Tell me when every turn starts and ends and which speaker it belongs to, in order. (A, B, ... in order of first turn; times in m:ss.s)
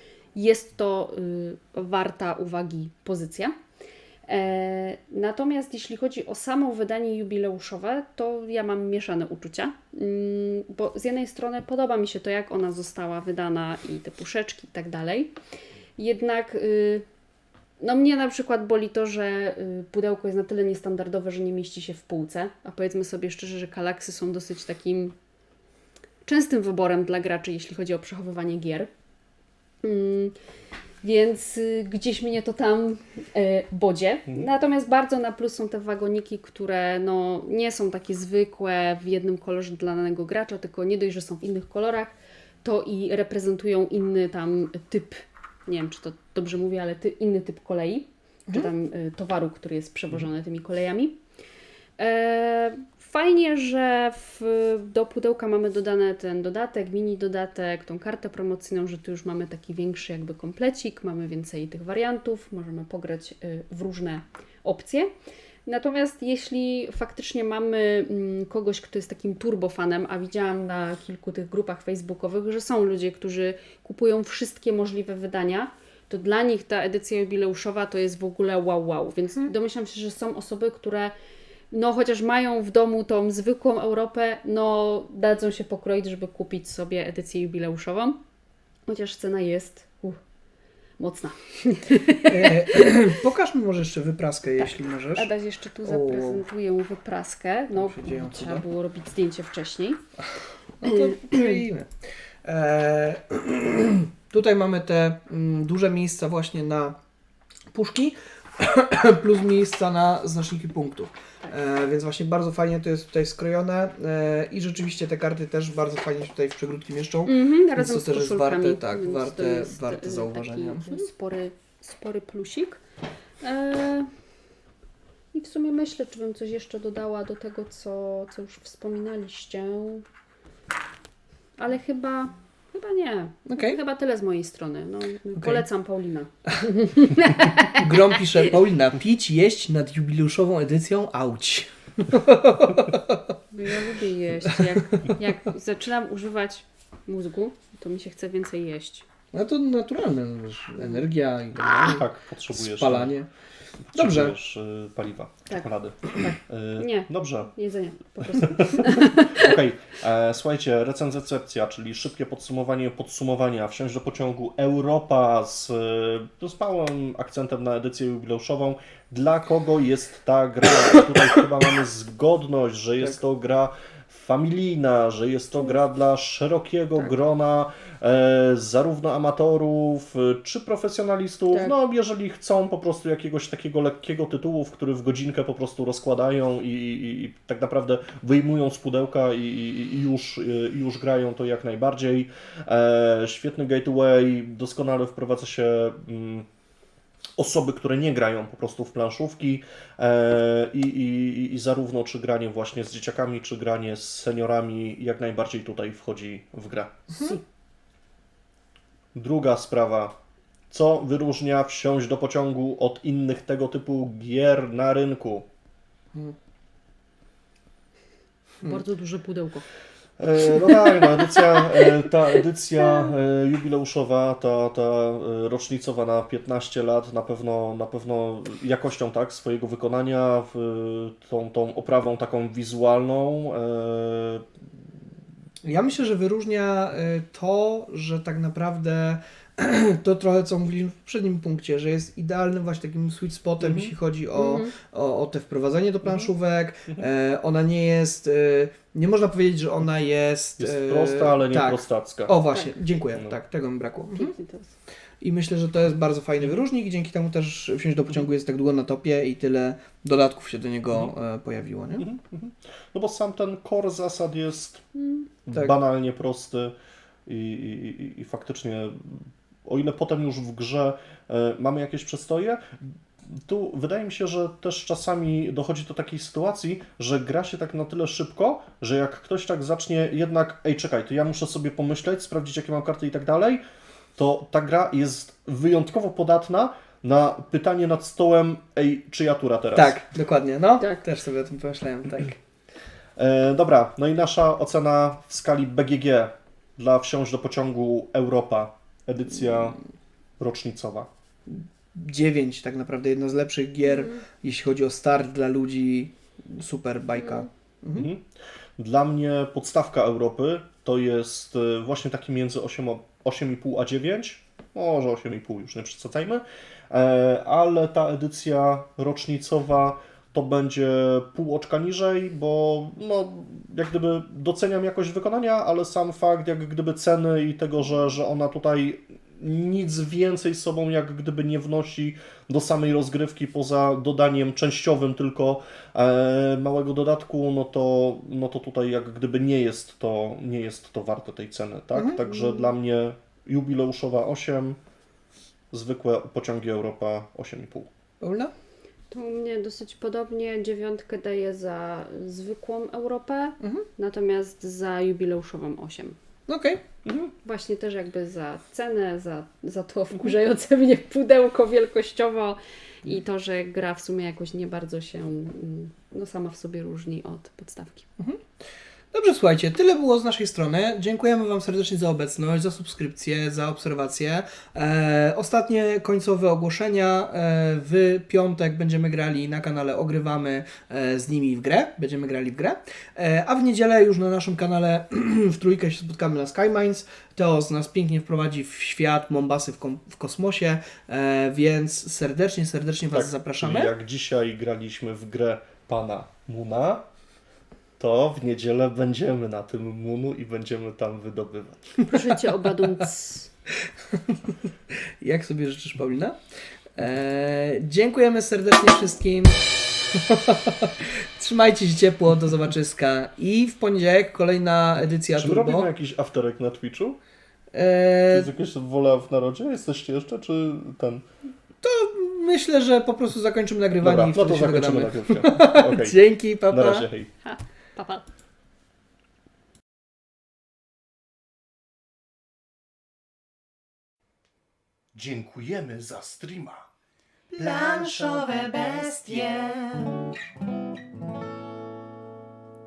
0:00.3-0:03.5 A
0:04.3-0:15.3 A
0:16.0-0:17.0 A
0:17.8-0:25.1 A
0:26.2-0:28.9 A
0:29.8-0:30.3 A
0:31.0-0:51.2 A
0:52.0-1:05.1 A
1:05.6-1:21.1 A
1:21.7-1:28.2 A
1:28.9-1:30.2 A
1:31.0-1:32.7 A
1:32.3-1:35.3 B
1:34.6-1:40.0 A
1:35.8-1:36.4 B
1:37.7-1:38.6 B
1:40.8-1:41.9 B
1:40.8-1:41.6 A
1:42.4-1:47.0 B
1:47.7-2:01.0 B
1:57.2-2:02.8 A
2:03.4-2:04.1 A
2:05.3-2:10.0 A
2:11.6-2:17.8 A
2:13.5-2:13.8 B
2:17.7-2:23.2 B
2:23.5-2:29.0 A
2:24.4-2:25.1 B
2:29.3-2:33.3 B
2:31.6-2:33.1 C
2:33.9-2:37.5 C
2:33.9-2:34.3 B
2:35.5-2:39.5 A
2:38.3-3:16.5 C
3:17.4-3:27.3 C
3:29.1-3:30.1 C
3:30.7-3:35.4 C
3:38.6-3:39.6 A
3:40.2-3:54.5 C
3:40.9-3:41.6 A
3:55.6-4:14.3 B
4:03.6-4:03.9 C
4:04.4-4:04.7 A
4:06.0-4:06.3 C
4:10.6-4:12.3 C
4:14.1-4:14.7 A
4:15.2-4:22.0 B
4:22.0-4:24.8 C
4:25.0-4:25.2 A
4:25.4-4:26.7 C
4:27.2-4:32.7 C
4:33.3-4:43.6 C
4:44.2-4:50.0 C
4:49.7-4:52.4 B
4:53.2-4:59.8 C
5:00.4-5:01.1 C
5:01.5-5:08.1 B
5:03.8-5:04.2 A
5:07.9-5:08.2 C
5:08.8-5:44.8 C
5:42.0-5:42.2 B
5:42.2-5:42.7 A
5:45.7-5:47.9 C
5:48.2-5:48.5 B
5:49.1-5:56.2 A
5:53.6-5:53.8 B
5:56.5-5:56.8 B
5:57.0-5:57.3 C
5:57.4-6:08.0 A
6:09.1-6:33.9 B
6:33.1-6:37.0 C
6:38.0-6:42.0 C
6:42.1-6:43.5 A
6:44.1-6:46.3 B
6:47.0-6:55.9 B
6:55.4-6:57.2 C
6:57.7-6:58.5 B
6:58.3-7:01.2 C
7:01.8-7:07.0 B
7:04.0-7:06.2 C
7:06.7-7:07.3 C
7:07.4-7:08.2 A
7:15.1-7:16.9 C
7:17.5-7:20.1 C